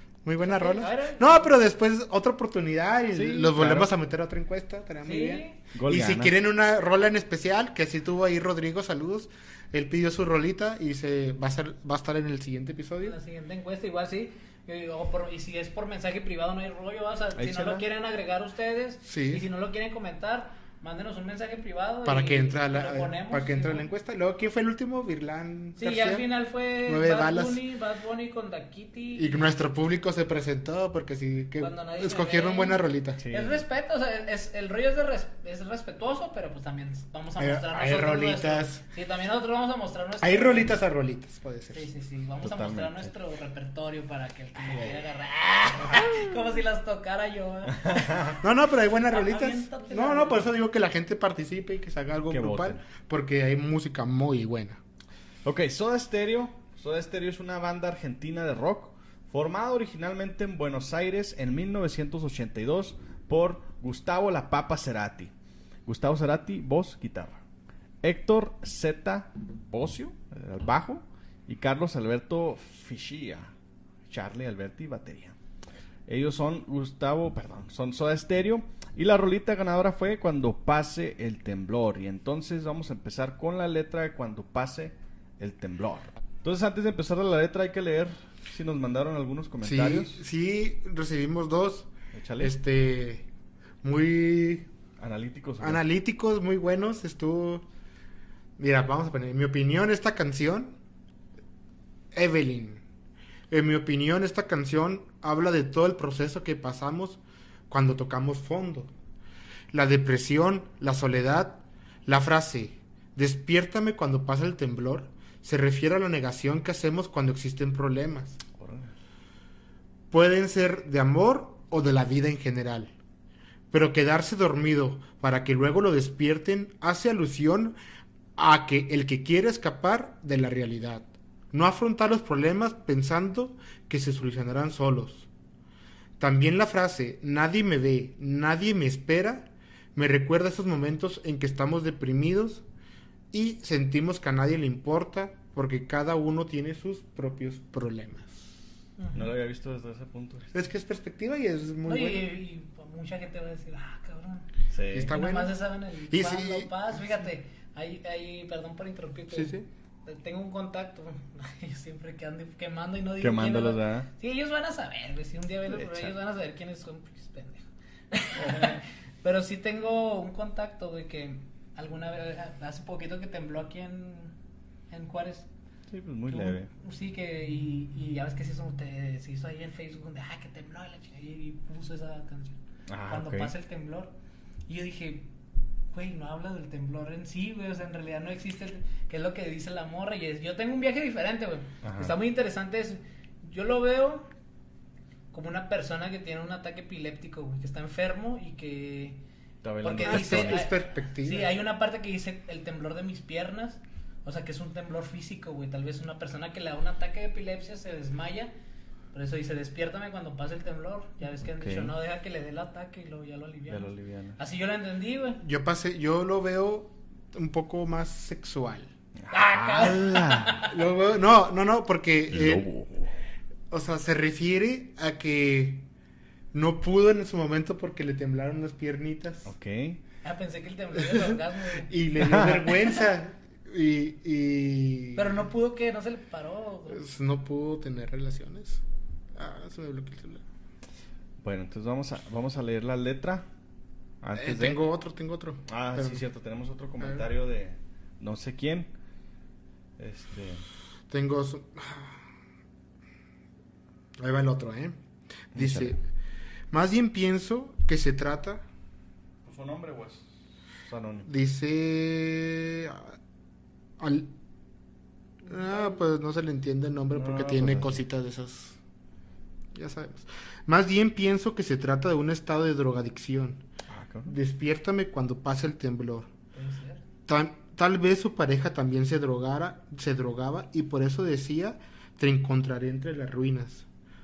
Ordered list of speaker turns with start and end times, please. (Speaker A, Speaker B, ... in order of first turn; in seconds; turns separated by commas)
Speaker A: 0.2-13.2, Speaker B: 0.4-1.6, Speaker C: 3.1-3.9, Speaker B: 5.0-5.6, Speaker C: 5.7-6.3, Speaker B: 13.0-23.9, Speaker C: 17.4-17.8, Speaker A: 19.0-19.4, Speaker A: 22.0-26.3, Speaker B: 25.8-29.3, Speaker A: 26.8-27.6, Speaker A: 29.1-33.2, Speaker B: 31.6-40.8, Speaker C: 33.2-33.6, Speaker A: 37.4-38.8, Speaker A: 40.2-41.9, Speaker B: 41.7-48.4, Speaker C: 42.4-43.1, Speaker C: 47.7-48.4, Speaker A: 48.4-54.8, Speaker B: 49.0-50.5, Speaker C: 52.3-52.8, Speaker C: 55.4-65.3, Speaker C: 65.8-67.4, Speaker C: 68.0-73.5, Speaker C: 74.1-75.3, Speaker C: 76.1-90.2, Speaker A: 89.6-93.3, Speaker C: 92.1-92.5, Speaker A: 93.8-94.7, Speaker C: 95.0-95.8, Speaker A: 95.6-97.7, Speaker A: 98.6-100.8, Speaker A: 102.1-102.8, Speaker A: 103.5-108.9, Speaker A: 109.7-118.4, Speaker C: 118.6-118.9, Speaker A: 120.1-122.9, Speaker A: 123.7-127.8, Speaker A: 128.4-135.3, Speaker A: 136.2-142.6, Speaker A: 143.3-148.4, Speaker B: 149.0-149.3, Speaker C: 149.1-150.5, Speaker A: 150.5-152.3, Speaker B: 151.8-154.5, Speaker C: 154.7-155.1, Speaker A: 154.9-157.3, Speaker B: 155.1-174.3, Speaker A: 159.3-159.7, Speaker C: 163.2-164.1, Speaker C: 165.7-166.1, Speaker C: 168.3-168.8, Speaker B: 174.9-175.5, Speaker C: 175.9-176.7, Speaker B: 176.3-184.1, Speaker C: 182.9-183.5, Speaker B: 184.7-185.3, Speaker B: 185.9-194.3, Speaker C: 191.8-192.2, Speaker B: 195.3-199.2, Speaker C: 199.6-200.7, Speaker B: 199.8-208.5, Speaker A: 200.0-201.6, Speaker B: 209.1-215.4, Speaker C: 211.4-211.9, Speaker C: 213.7-214.4, Speaker A: 215.4-218.9, Speaker C: 219.2-220.6, Speaker B: 219.3-220.7, Speaker A: 220.7-222.7, Speaker C: 222.3-223.2, Speaker A: 223.7-225.9, Speaker A: 226.5-229.5, Speaker C: 229.4-230.0, Speaker B: 230.2-232.0, Speaker A: 230.9-235.5, Speaker C: 232.2-232.8, Speaker B: 235.2-237.0, Speaker A: 236.9-238.8, Speaker A: 239.3-240.4, Speaker C: 241.4-243.5, Speaker C: 244.2-244.8, Speaker A: 244.3-246.2, Speaker C: 245.7-248.9, Speaker A: 247.0-247.3, Speaker C: 250.0-250.6, Speaker A: 251.1-252.2, Speaker A: 254.2-255.0, Speaker A: 255.5-256.0, Speaker C: 255.5-255.9, Speaker A: 256.7-258.6, Speaker C: 259.4-260.2, Speaker C: 260.8-261.3, Speaker A: 261.2-263.1, Speaker A: 264.0-264.3, Speaker B: 265.4-266.0, Speaker A: 265.5-268.8, Speaker C: 267.1-268.0, Speaker A: 269.7-273.6, Speaker C: 273.9-274.3, Speaker A: 274.3-276.3, Speaker B: 276.5-277.0, Speaker A: 277.3-283.8